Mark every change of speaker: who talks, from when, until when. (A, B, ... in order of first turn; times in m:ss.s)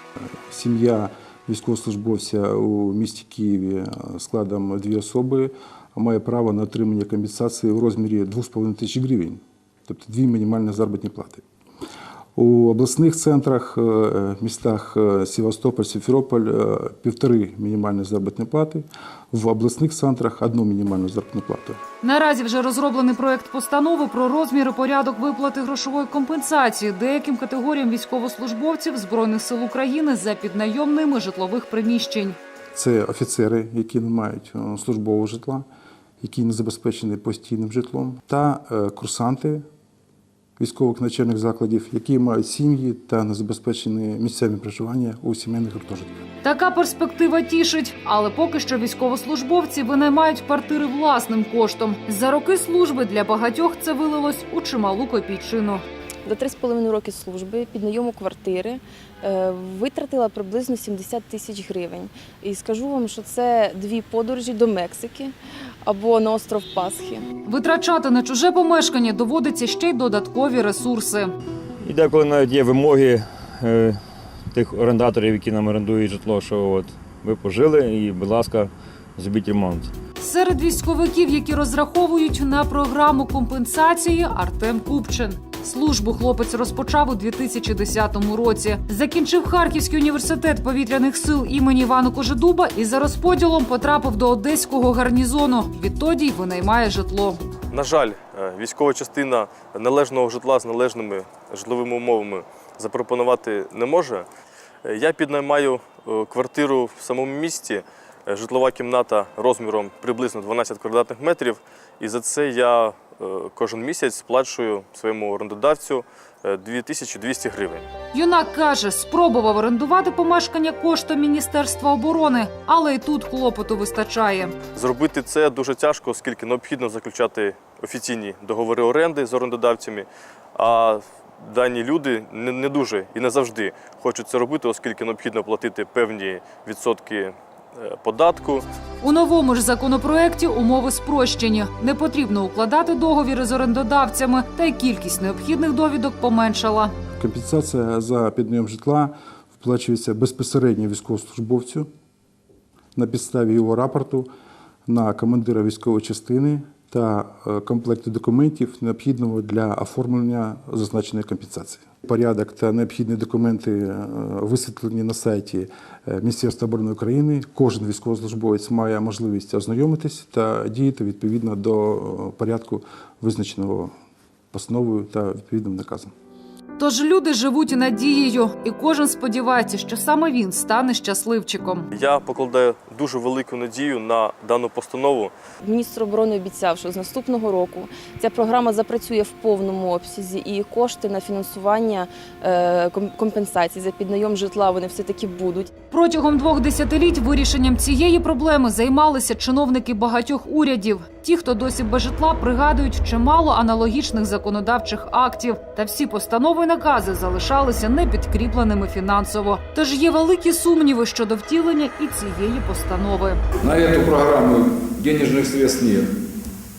0:00.5-0:11.4 A
0:12.4-0:21.8 A
0:22.0-0:32.4 B
0:32.7-0:35.7 A
0:36.2-0:39.6 A
0:40.6-0:46.1 A
0:46.4-0:55.8 B
0:56.2-1:07.3 C
1:07.4-1:11.4 B
1:11.8-1:14.0 D
1:14.5-1:19.9 D
1:20.2-1:37.4 B
1:37.7-1:44.3 E
1:44.8-1:57.9 E
1:58.1-2:04.6 B
2:04.8-2:18.6 E
2:19.0-2:26.9 B
2:27.2-2:31.9 A
2:33.0-2:34.3 A
2:34.9-2:53.9 A
2:54.5-2:56.1 A
2:56.8-3:01.9 B
3:01.9-3:05.3 E
3:05.6-3:15.7 C
3:15.9-3:33.4 B
3:33.6-3:36.1 F